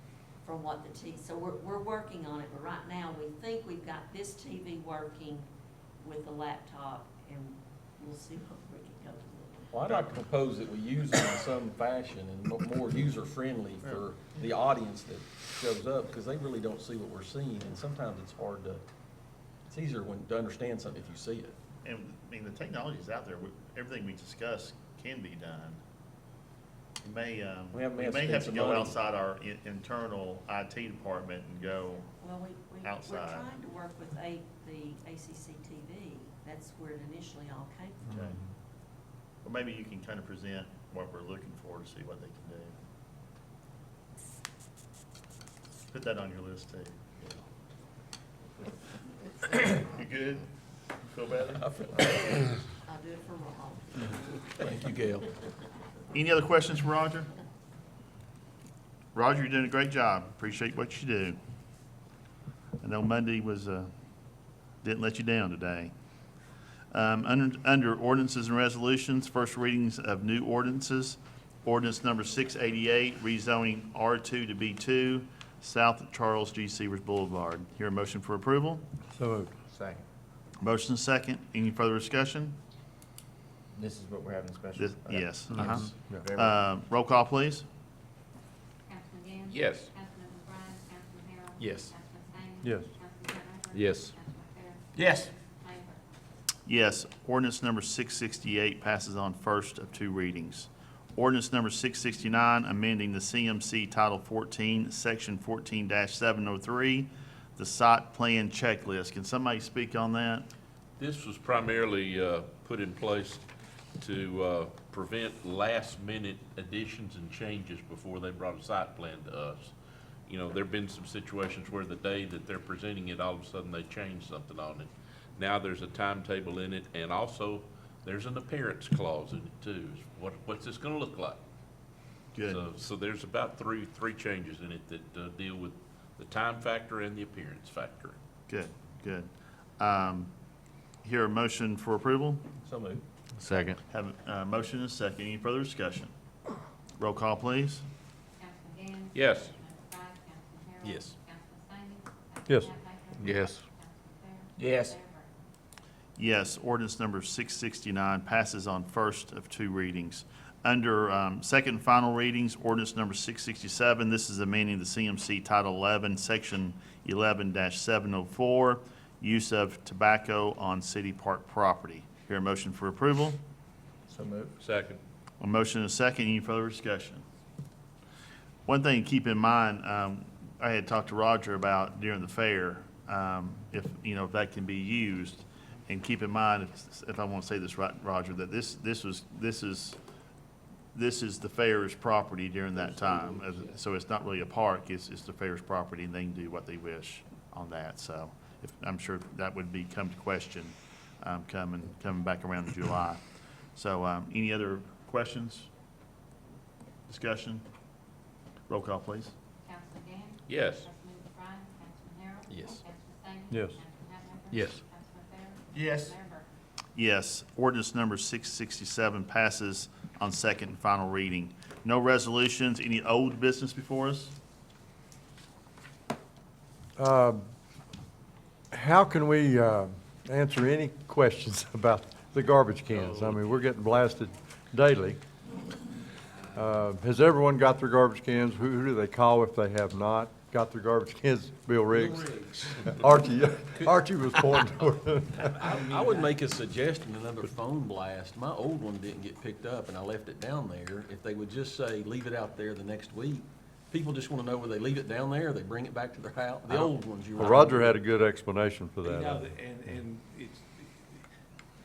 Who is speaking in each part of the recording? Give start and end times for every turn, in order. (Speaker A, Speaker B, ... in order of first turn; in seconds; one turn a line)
Speaker A: 0.4-5.5
Speaker A: 6.0-9.7
Speaker B: 9.7-18.8
Speaker B: 19.7-21.5
Speaker C: 21.8-25.8
Speaker C: 27.0-32.1
Speaker B: 27.7-29.0
Speaker A: 32.1-38.1
Speaker C: 32.8-33.5
Speaker C: 38.1-38.4
Speaker C: 39.4-42.7
Speaker C: 45.9-47.4
Speaker C: 49.5-50.5
Speaker C: 51.0-52.2
Speaker B: 51.6-52.3
Speaker A: 52.9-54.5
Speaker B: 54.6-55.3
Speaker C: 56.1-57.3
Speaker C: 59.1-61.4
Speaker C: 62.8-63.9
Speaker C: 64.8-65.9
Speaker C: 66.9-78.8
Speaker D: 79.2-79.6
Speaker C: 80.6-82.6
Speaker E: 83.8-86.6
Speaker C: 84.8-87.6
Speaker D: 85.5-86.2
Speaker F: 88.9-96.1
Speaker G: 89.5-89.9
Speaker G: 91.6-91.9
Speaker D: 92.6-92.9
Speaker G: 93.7-94.1
Speaker C: 96.7-110.5
Speaker G: 111.0-113.4
Speaker G: 114.0-119.7
Speaker G: 120.3-131.4
Speaker C: 132.3-132.6
Speaker G: 132.4-138.2
Speaker C: 138.5-140.3
Speaker C: 141.0-142.4
Speaker B: 142.7-143.0
Speaker C: 143.9-146.1
Speaker C: 147.0-147.8
Speaker F: 148.4-155.3
Speaker G: 149.1-149.5
Speaker B: 150.8-151.1
Speaker C: 156.2-173.4
Speaker G: 174.6-175.0
Speaker C: 175.4-177.2
Speaker C: 178.7-190.0
Speaker C: 190.9-203.2
Speaker B: 193.0-193.3
Speaker C: 203.7-205.7
Speaker C: 207.1-207.6
Speaker C: 208.7-209.3
Speaker F: 209.6-216.4
Speaker G: 210.5-210.9
Speaker B: 212.5-212.8
Speaker D: 213.5-213.8
Speaker B: 214.5-214.8
Speaker C: 216.9-224.3
Speaker D: 226.9-227.4
Speaker D: 228.7-235.2
Speaker G: 232.9-233.4
Speaker D: 236.5-242.2
Speaker H: 241.9-242.8
Speaker D: 242.8-245.7
Speaker B: 245.3-258.0
Speaker H: 245.6-246.3
Speaker D: 256.7-259.4
Speaker H: 259.0-261.2